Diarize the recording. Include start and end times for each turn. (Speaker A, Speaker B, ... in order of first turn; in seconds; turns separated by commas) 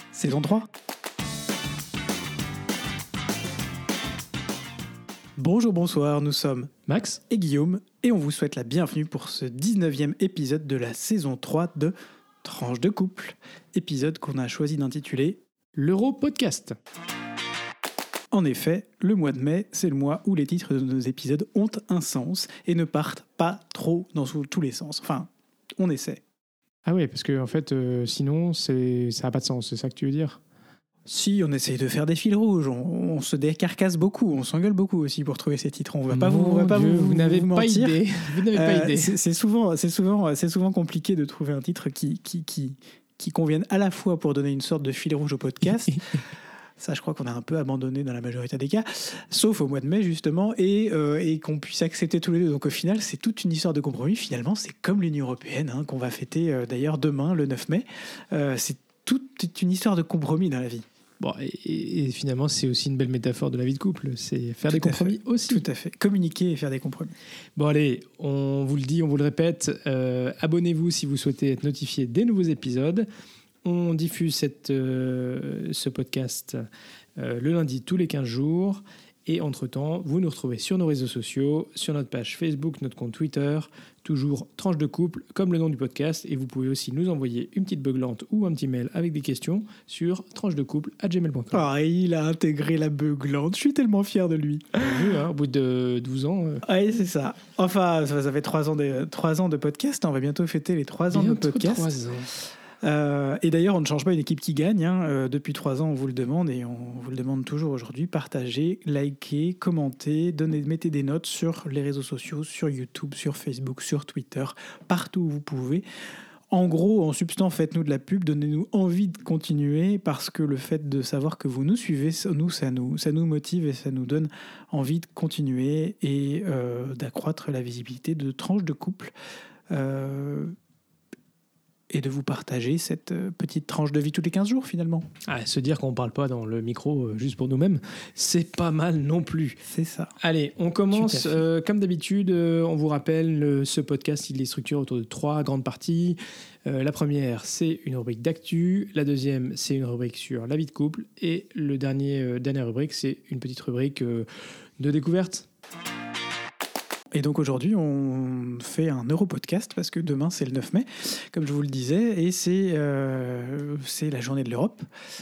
Speaker A: 0.1-0.7, Speaker A: 5.4-6.7, Speaker B: 6.9-7.2, Speaker A: 7.3-15.4, Speaker B: 15.7-16.8, Speaker A: 18.3-26.2, Speaker B: 26.9-30.4, Speaker A: 31.1-38.0, Speaker B: 36.1-39.1, Speaker A: 38.5-46.2, Speaker A: 46.8-60.8, Speaker B: 61.2-65.6, Speaker A: 64.7-67.1, Speaker B: 67.5-73.1, Speaker B: 73.6-76.6, Speaker B: 77.2-91.6, Speaker A: 91.5-95.1, Speaker B: 94.7-96.6, Speaker A: 96.6-101.9, Speaker B: 101.1-102.3, Speaker A: 102.8-115.8, Speaker A: 116.5-129.1, Speaker A: 129.7-130.5, Speaker A: 131.9-135.1, Speaker B: 135.2-139.6, Speaker A: 139.7-140.1, Speaker B: 140.2-154.2, Speaker A: 140.9-141.4, Speaker B: 154.8-155.5, Speaker A: 157.1-164.8